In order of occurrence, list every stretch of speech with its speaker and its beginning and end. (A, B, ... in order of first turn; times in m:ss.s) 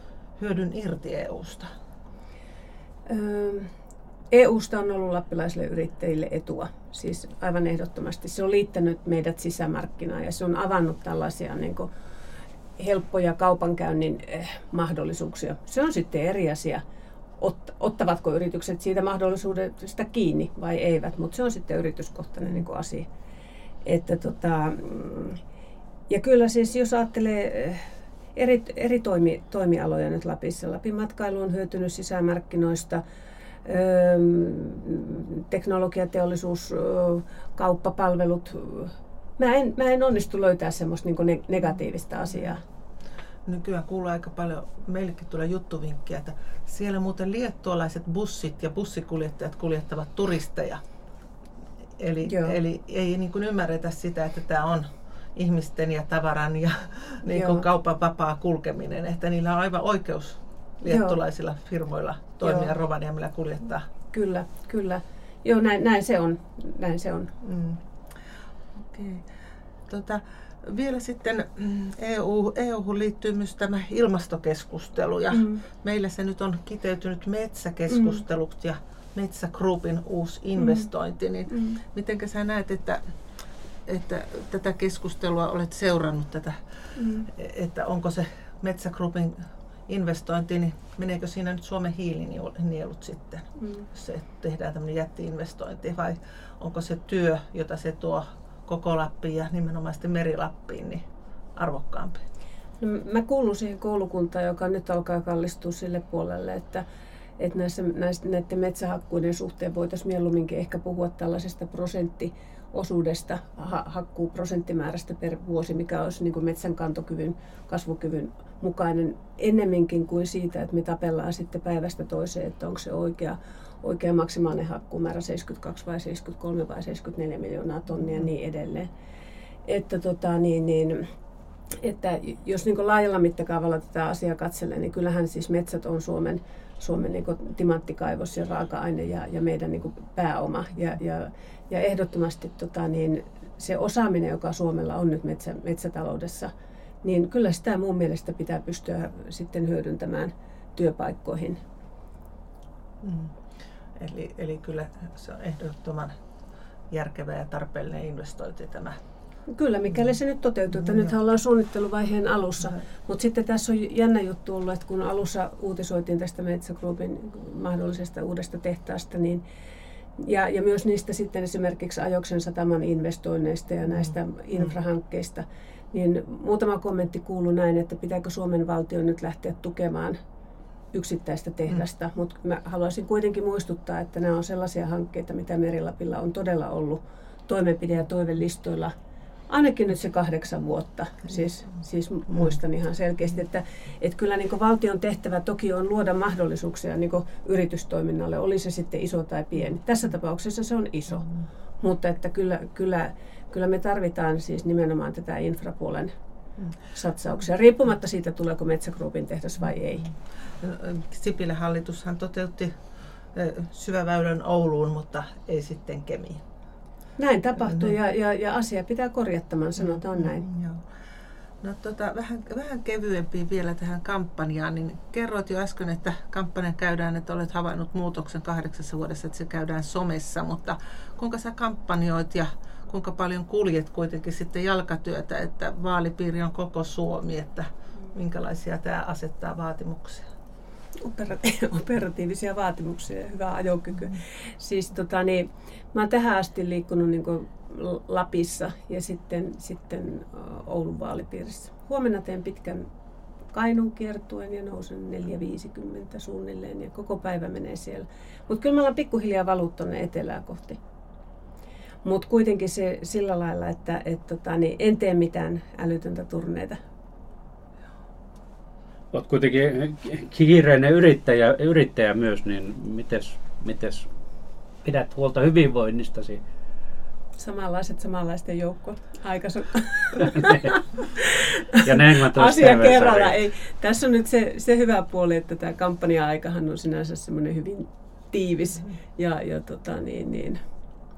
0:00.4-0:01.7 A
0:03.1-0:03.7 B
0:04.3-0:11.9 B
0:12.8-0:16.8 B
0:17.4-0:23.1 B
0:23.8-0:25.4 B
0:26.1-0:33.0 B
0:33.6-0:42.6 B
0:43.5-0:50.8 A
0:52.0-1:03.9 A
0:52.3-0:52.6 B
0:57.3-0:57.6 B
1:00.9-1:01.2 B
1:02.4-1:02.7 B
1:04.1-1:07.3 B
1:07.4-1:07.8 A
1:08.8-1:09.2 A
1:09.9-1:23.0 A
1:15.3-1:15.6 B
1:17.9-1:18.2 B
1:20.6-1:20.9 B
1:21.5-1:21.8 B
1:23.9-1:26.6 A
1:27.0-1:27.3 B
1:27.3-1:29.4 A
1:29.9-1:41.0 A
1:33.6-1:33.8 B
1:41.6-1:42.2 A
1:42.8-1:46.8 B
1:47.4-2:08.9 B
2:09.7-2:11.0 B
2:11.8-2:26.5 B
2:27.0-2:31.6 B
2:33.0-2:33.3 A
2:34.0-2:36.2 A
2:36.9-2:39.0 A
2:39.5-2:49.4 B
2:40.8-2:41.1 A
2:50.2-3:00.2 B
3:00.9-3:08.9 B
3:09.5-3:21.3 B
3:21.8-3:26.1 B
3:26.9-3:30.1 B
3:30.6-3:32.8 A
3:33.3-3:36.4 A
3:37.2-3:40.5 B
3:37.7-3:38.0 A
3:39.8-3:40.8 A
3:41.6-4:00.3 A
4:01.0-4:12.9 B
4:13.5-4:20.8 B
4:22.0-4:26.8 B
4:29.1-4:34.1 C
4:34.8-4:36.4 C
4:37.4-4:50.6 B
4:41.8-4:43.4 C